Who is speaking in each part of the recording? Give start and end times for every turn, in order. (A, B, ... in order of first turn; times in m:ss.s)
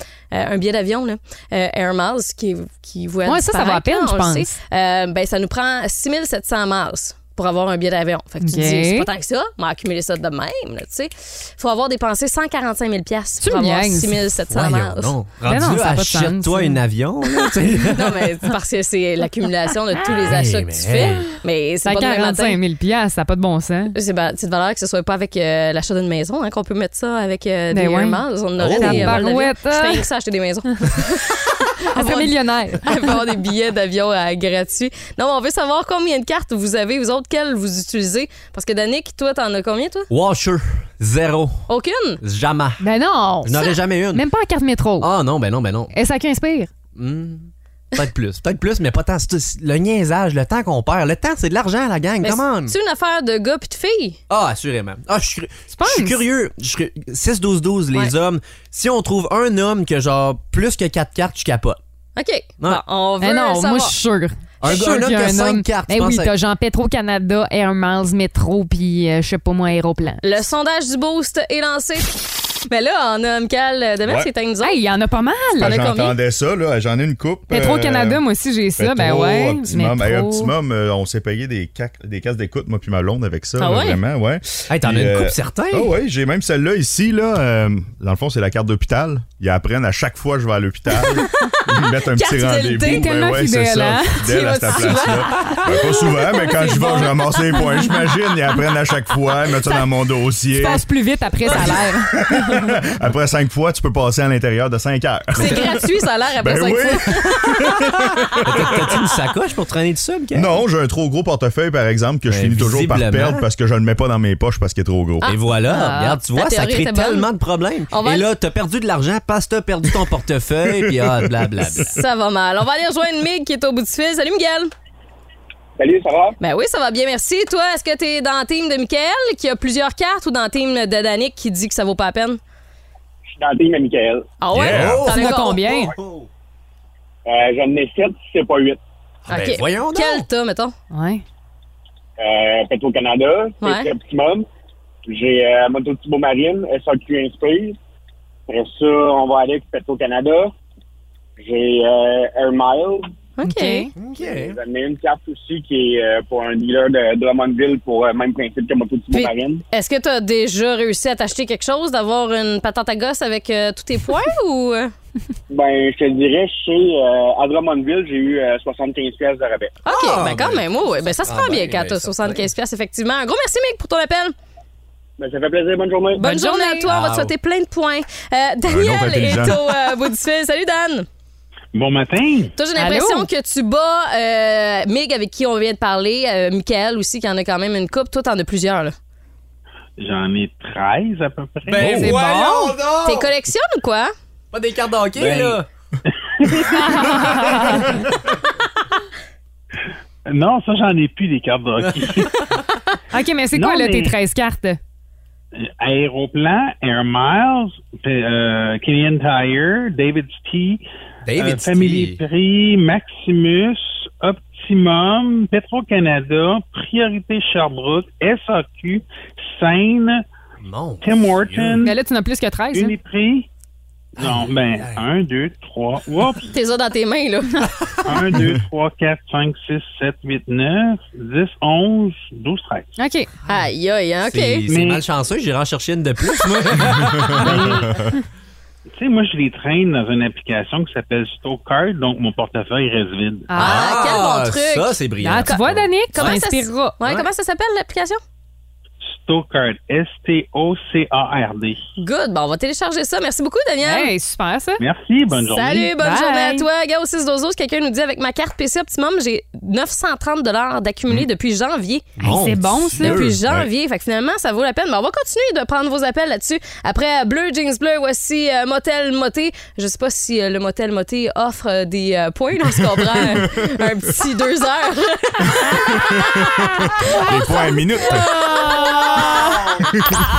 0:00.3-0:15.2 A
0:03.2-0:04.5 B
0:08.4-0:09.1 B
0:13.4-0:14.2 B
0:14.5-0:18.3 C
0:15.4-0:16.8 B
0:17.8-0:22.6 A
0:20.0-0:21.2 C
0:21.8-0:23.9 B
0:23.9-0:40.1 A
0:27.7-0:28.2 B
0:28.6-0:29.2 C
0:28.8-0:30.0 B
0:31.9-0:33.0 B
0:40.1-0:41.6 C
0:41.7-0:42.2 A
0:42.2-0:42.8 C
0:42.8-0:45.1 B
0:43.4-0:44.2 C
0:45.0-0:45.9 C
0:45.9-0:46.7 B
0:46.9-0:52.7 C
0:52.2-0:54.2 A
0:54.3-1:01.8 C
0:55.7-0:56.2 B
1:02.2-1:03.9 A
1:03.2-1:10.2 B
1:04.6-1:06.3 C
1:10.2-1:14.8 A
1:14.6-1:15.7 B
1:15.6-1:16.2 A
1:15.6-1:18.2 D
1:17.5-1:20.5 B
1:18.8-1:40.9 D
1:23.6-1:24.0 A
1:24.7-1:25.9 C
1:32.2-1:38.0 B
1:32.2-1:33.0 A
1:40.5-1:42.7 B
1:41.5-1:49.1 D
1:45.3-1:47.7 A
1:48.4-1:50.6 C
1:50.3-1:55.2 D
1:52.3-1:53.4 C
1:55.2-2:01.9 C
1:55.7-1:56.1 B
1:56.3-1:57.3 A
1:57.9-1:58.2 A
2:00.8-2:01.3 D
2:01.9-2:04.7 A
2:05.8-2:06.3 E
2:06.4-2:12.4 A
2:13.4-2:14.3 E
2:14.4-2:15.7 A
2:14.5-2:15.0 D
2:14.5-2:15.4 C
2:15.0-2:15.9 B
2:17.2-2:18.8 E
2:19.3-2:20.2 C
2:19.3-2:20.7 A
2:20.9-2:21.2 B
2:22.2-2:24.5 E
2:23.6-2:23.9 A
2:25.1-2:27.8 E
2:28.5-2:30.5 E
2:31.4-2:33.1 E
2:33.4-2:33.9 A
2:33.4-2:33.9 B
2:34.0-2:34.6 C
2:34.2-2:39.6 E
2:39.1-2:44.9 A
2:45.5-2:49.8 E
2:49.8-2:54.3 A
2:49.9-2:52.5 C
2:55.2-2:56.2 E
2:56.2-2:56.8 B
2:56.2-3:01.1 A
2:56.8-2:57.3 C
2:58.7-2:59.6 D
3:01.7-3:02.5 F
3:02.6-3:08.9 A
3:02.8-3:03.3 B
3:10.0-3:11.9 F
3:11.7-3:13.3 C
3:11.8-3:12.8 B
3:13.0-3:14.1 A
3:14.5-3:15.6 C
3:16.5-3:17.9 B
3:20.3-3:22.3 F
3:23.1-3:24.8 B
3:23.6-3:24.1 F
3:25.8-3:30.8 F
3:31.2-3:32.2 C
3:31.4-3:39.0 F
3:39.6-3:40.1 F
3:40.6-3:41.8 C
3:41.0-3:41.9 F
3:41.8-3:43.0 B
3:42.8-3:43.4 F
3:44.2-3:46.4 F
3:44.2-3:45.0 C
3:46.5-3:47.6 A
3:48.1-3:52.9 F
3:53.0-3:53.3 B
3:53.5-3:54.6 A
3:54.3-3:57.8 C
3:54.7-3:55.0 F
3:57.5-3:57.8 F
3:59.0-4:03.4 F
4:03.5-4:04.1 B
4:03.5-4:05.6 A
4:03.6-4:06.4 C
4:05.2-4:07.0 B
4:06.1-4:08.2 A
4:07.0-4:07.3 C
4:09.1-4:11.8 F
4:12.0-4:14.1 A
4:13.8-4:14.8 B
4:14.8-4:15.8 F
4:15.4-4:22.1 A
4:15.8-4:16.6 B
4:22.2-4:23.7 C
4:22.2-4:23.2 B
4:23.0-4:39.7 A
4:36.1-4:38.3 D
4:38.7-4:39.1 B